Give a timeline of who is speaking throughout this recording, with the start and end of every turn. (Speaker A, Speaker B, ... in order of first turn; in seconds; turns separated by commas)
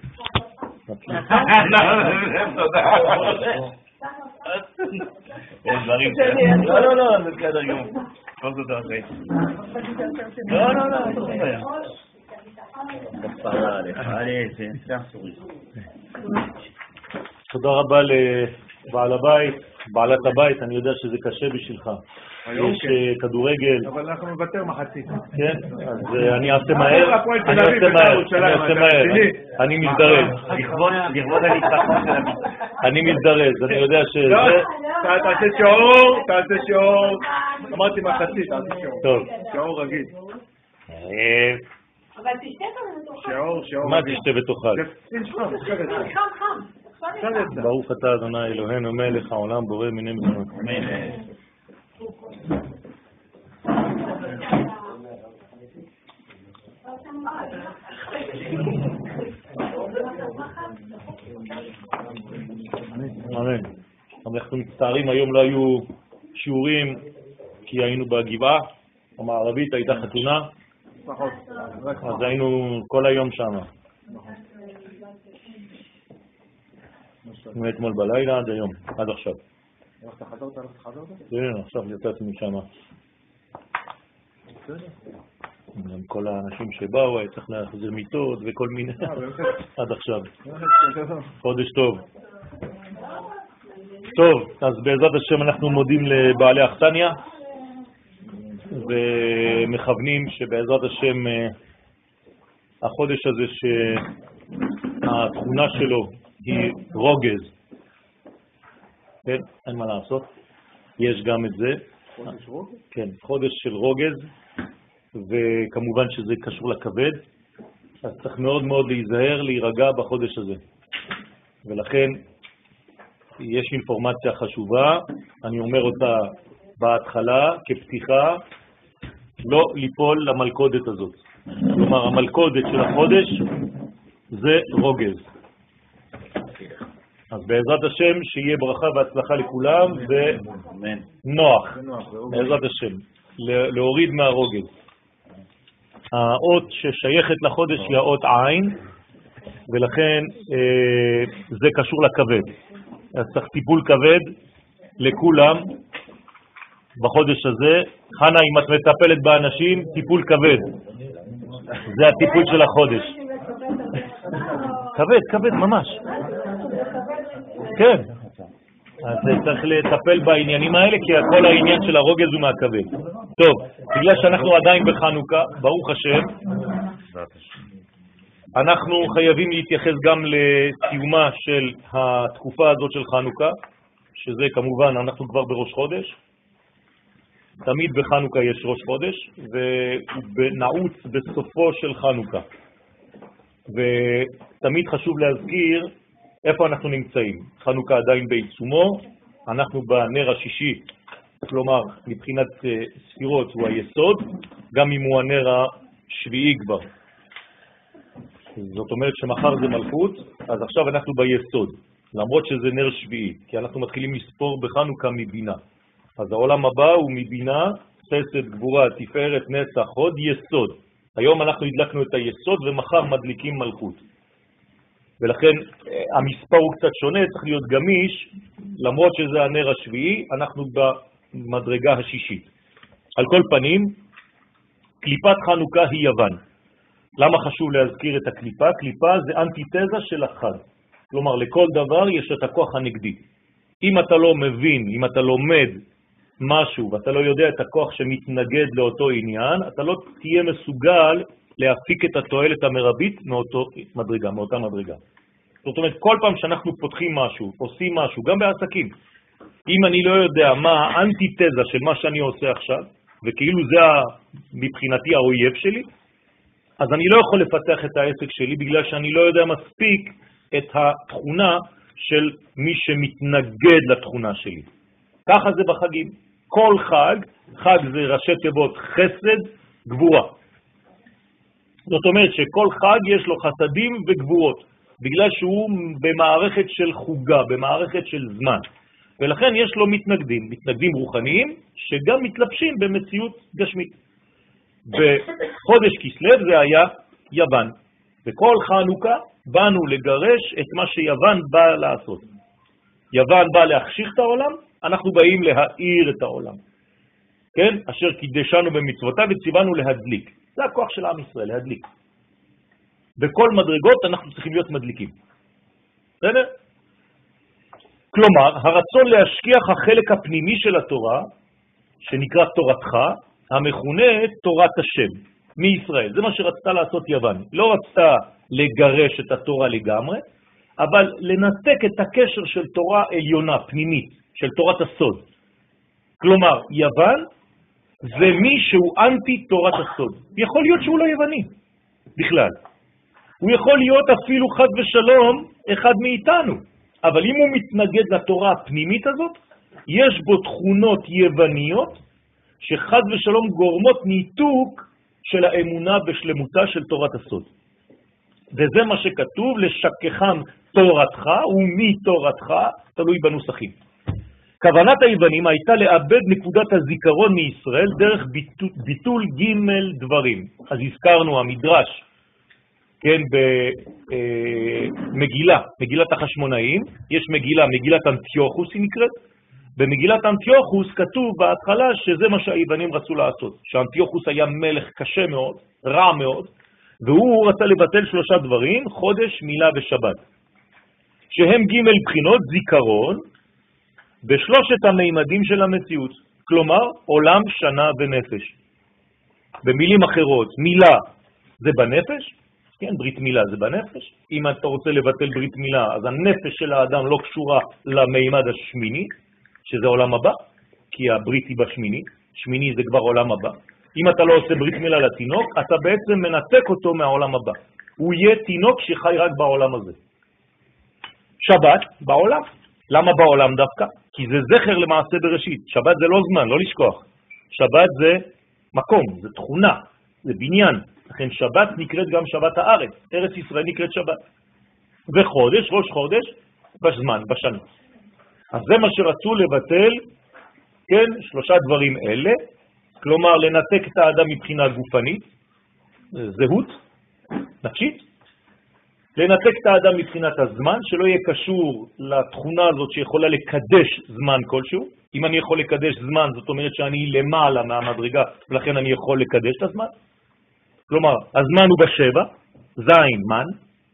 Speaker A: 0.9-2.0, Speaker B: 1.3-3.7, Speaker B: 5.7-9.1, Speaker A: 5.7-6.8, Speaker C: 6.1-6.8, Speaker C: 9.8-11.9, Speaker A: 10.5-11.5, Speaker B: 10.5-11.6, Speaker B: 13.2-15.4, Speaker A: 17.5-22.0, Speaker D: 22.4-23.0, Speaker A: 22.5-23.9, Speaker D: 23.8-25.2, Speaker A: 25.3-32.0, Speaker D: 26.7-32.1, Speaker B: 30.5-32.4, Speaker A: 32.8-34.7, Speaker D: 34.2-40.1, Speaker C: 34.4-40.4, Speaker A: 39.0-39.3, Speaker A: 40.9-41.6, Speaker C: 42.2-43.6, Speaker D: 43.2-46.1, Speaker A: 43.8-44.9, Speaker C: 45.3-47.5, Speaker D: 47.2-47.7, Speaker A: 47.5-50.6, Speaker B: 50.6-51.2, Speaker C: 56.9-59.0, Speaker C: 59.5-60.8, Speaker D: 62.0-63.3, Speaker A: 63.3-63.7, Speaker A: 64.2-67.0, Speaker A: 67.7-70.5, Speaker D: 71.0-72.3, Speaker A: 72.0-73.7, Speaker C: 74.3-75.2, Speaker D: 77.2-77.6, Speaker A: 77.5-79.4, Speaker D: 80.0-81.2, Speaker A: 81.3-82.7, Speaker D: 84.6-85.0, Speaker A: 85.7-90.3, Speaker D: 89.0-89.6, Speaker D: 90.5-91.3, Speaker A: 91.4-92.0, Speaker C: 92.8-93.3, Speaker A: 94.1-97.2, Speaker A: 98.7-101.5, Speaker A: 102.8-104.1, Speaker A: 105.0-107.5, Speaker A: 109.2-110.3, Speaker A: 111.0-111.8, Speaker D: 112.2-112.8, Speaker A: 112.9-114.3, Speaker A: 115.1-117.2, Speaker A: 118.0-120.6, Speaker A: 121.7-122.2, Speaker A: 123.4-128.4, Speaker A: 129.4-133.5, Speaker A: 134.3-135.2, Speaker A: 137.3-140.5, Speaker B: 140.7-141.0, Speaker A: 141.2-144.7, Speaker D: 141.7-142.6, Speaker A: 146.1-148.8, Speaker A: 149.7-152.5, Speaker A: 153.2-154.3, Speaker A: 155.0-155.8, Speaker A: 157.0-160.8, Speaker A: 161.8-163.1, Speaker C: 162.4-164.6, Speaker A: 164.9-166.0, Speaker C: 166.1-167.7, Speaker A: 167.7-168.1, Speaker A: 169.0-176.4, Speaker A: 178.6-183.6, Speaker A: 184.2-186.2, Speaker A: 187.7-192.4, Speaker A: 193.7-195.9, Speaker A: 196.4-200.9, Speaker A: 201.4-206.9, Speaker A: 208.6-215.6, Speaker A: 216.2-224.0, Speaker A: 225.2-232.5, Speaker A: 233.2-234.0, Speaker A: 235.0-236.4, Speaker A: 237.2-243.2, Speaker A: 243.8-245.8, Speaker A: 246.4-255.0, Speaker A: 255.6-258.9, Speaker A: 259.7-265.9, Speaker A: 266.8-274.7, Speaker A: 275.2-280.3, Speaker A: 281.9-288.6, Speaker A: 289.2-293.9, Speaker A: 294.9-297.7, Speaker A: 298.2-302.2, Speaker A: 303.1-306.6, Speaker A: 307.6-311.9, Speaker A: 313.2-315.1, Speaker A: 316.2-316.5, Speaker A: 318.1-321.3, Speaker A: 322.0-330.2, Speaker A: 330.8-335.2, Speaker A: 336.2-337.3, Speaker A: 338.0-341.5, Speaker A: 342.2-342.6, Speaker A: 343.4-352.0, Speaker A: 352.6-357.5, Speaker A: 358.5-363.8, Speaker A: 364.6-372.0, Speaker A: 373.0-379.1, Speaker A: 379.8-390.2, Speaker A: 391.3-393.2, Speaker A: 394.2-398.6, Speaker A: 399.6-401.1, Speaker A: 401.6-409.1, Speaker A: 409.6-410.4, Speaker A: 410.9-419.9, Speaker A: 421.4-434.2, Speaker A: 435.1-437.6, Speaker A: 438.5-440.0, Speaker A: 440.9-442.4, Speaker A: 443.0-445.3, Speaker A: 446.1-446.8, Speaker A: 447.6-448.0, Speaker A: 449.2-459.9, Speaker A: 460.9-463.6